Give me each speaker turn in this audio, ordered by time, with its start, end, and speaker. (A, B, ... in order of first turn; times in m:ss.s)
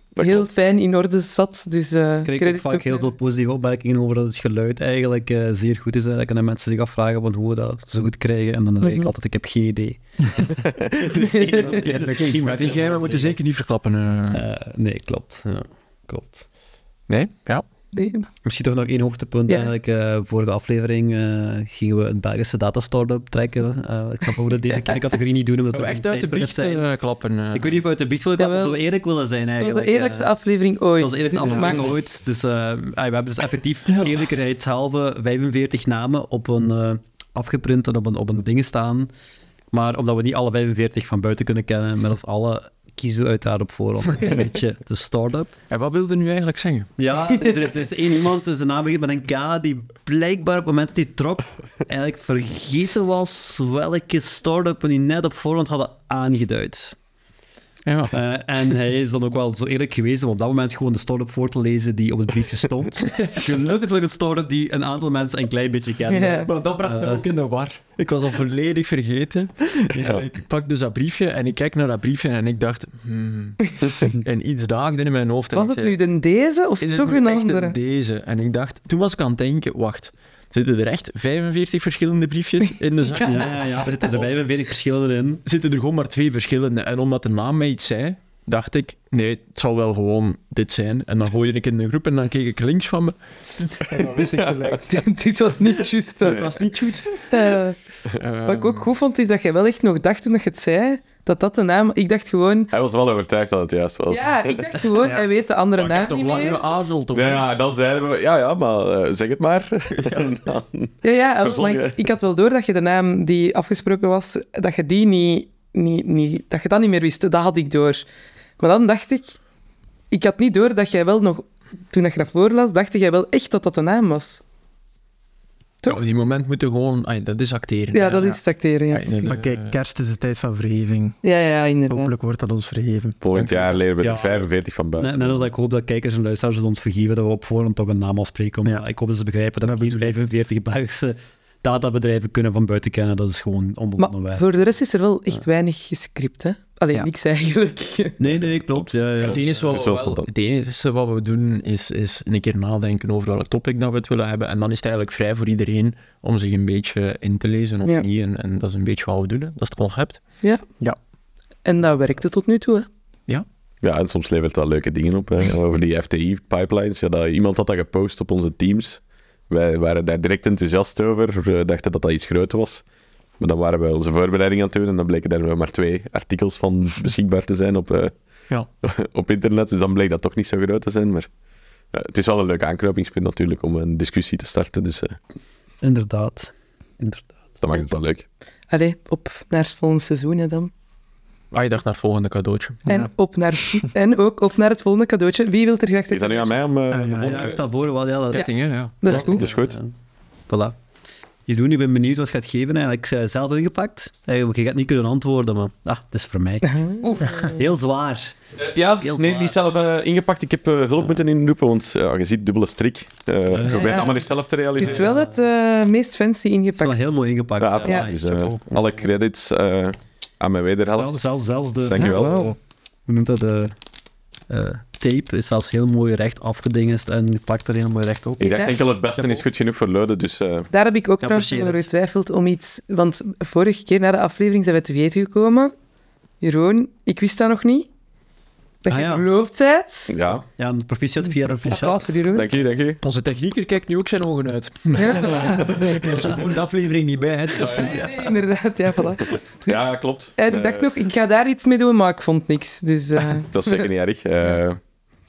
0:00.2-0:00.5 A
0:00.2-0:03.1 B
0:02.2-0:13.4 C
0:08.8-0:09.1 B
0:11.2-0:11.7 B
0:11.6-0:14.4 D
0:14.3-0:16.5 C
0:17.1-0:17.6 D
0:17.9-0:18.3 B
0:18.4-0:26.8 C
0:25.7-0:27.8 D
0:27.5-0:30.3 C
0:28.4-0:28.8 B
0:29.6-0:31.9 B
0:31.0-0:39.1 C
0:39.7-0:45.5 C
0:45.7-0:46.9 D
0:47.0-0:57.0 C
0:57.8-0:58.2 D
0:58.1-1:07.3 C
1:06.1-1:06.5 B
1:06.5-1:16.0 D
1:15.5-1:17.8 B
1:16.8-1:24.3 D
1:23.2-1:25.4 C
1:25.4-1:33.2 D
1:33.7-1:34.8 D
1:34.4-1:34.8 A
1:34.9-1:36.6 B
1:36.2-1:37.4 D
1:37.3-1:37.8 B
1:38.1-1:38.9 D
1:38.5-1:42.7 B
1:42.7-1:44.8 A
1:44.1-1:46.6 B
1:45.8-1:47.5 D
1:47.1-1:52.0 A
1:51.0-1:58.0 B
1:58.6-1:59.4 B
2:00.1-2:04.4 B
2:05.8-2:09.8 D
2:07.9-2:09.2 B
2:09.2-2:11.2 E
2:11.2-2:12.1 B
2:11.9-2:13.2 E
2:13.2-2:15.4 A
2:13.4-2:13.7 D
2:14.0-2:14.5 C
2:15.0-2:24.4 C
2:19.6-2:20.1 E
2:24.0-2:28.2 B
2:28.2-2:29.9 C
2:29.2-2:40.2 D
2:29.2-2:30.3 A
2:41.6-2:42.9 B
2:43.8-2:52.8 A
2:53.4-2:58.1 A
2:58.8-3:01.3 A
3:01.9-3:05.2 A
3:05.8-3:07.4 C
3:07.6-3:08.2 A
3:08.7-3:10.7 B
3:11.5-3:12.8 D
3:12.9-3:16.6 B
3:16.1-3:17.6 A
3:16.9-3:17.5 E
3:17.1-3:18.5 C
3:18.3-3:19.0 D
3:19.0-3:19.4 B
3:19.0-3:19.9 C
3:19.1-3:19.8 A
3:20.5-3:20.8 C
3:21.5-3:28.4 C
3:26.6-3:27.6 B
3:28.6-3:35.1 A
3:29.0-3:29.6 C
3:33.5-3:34.1 C
3:33.7-3:34.1 B
3:34.8-3:37.0 B
3:36.8-3:38.7 C
3:37.6-3:41.2 A
3:37.8-3:38.1 B
3:40.9-3:42.6 C
3:41.9-3:42.5 A
3:43.1-3:43.8 C
3:44.5-3:48.6 C
3:48.4-3:50.7 A
3:48.4-3:48.7 B
3:50.7-3:55.7 B
3:51.3-3:51.8 C
3:56.4-3:57.9 B
3:58.8-4:00.2 B
3:58.9-3:59.2 C
4:00.1-4:00.4 A
4:00.6-4:02.2 C
4:01.6-4:02.5 B
4:02.3-4:03.0 A
4:03.0-4:08.3 D
4:05.0-4:05.8 B
4:05.9-4:06.5 C
4:07.7-4:09.8 B
4:09.6-4:10.9 A
4:10.4-4:13.9 B
4:13.5-4:14.8 A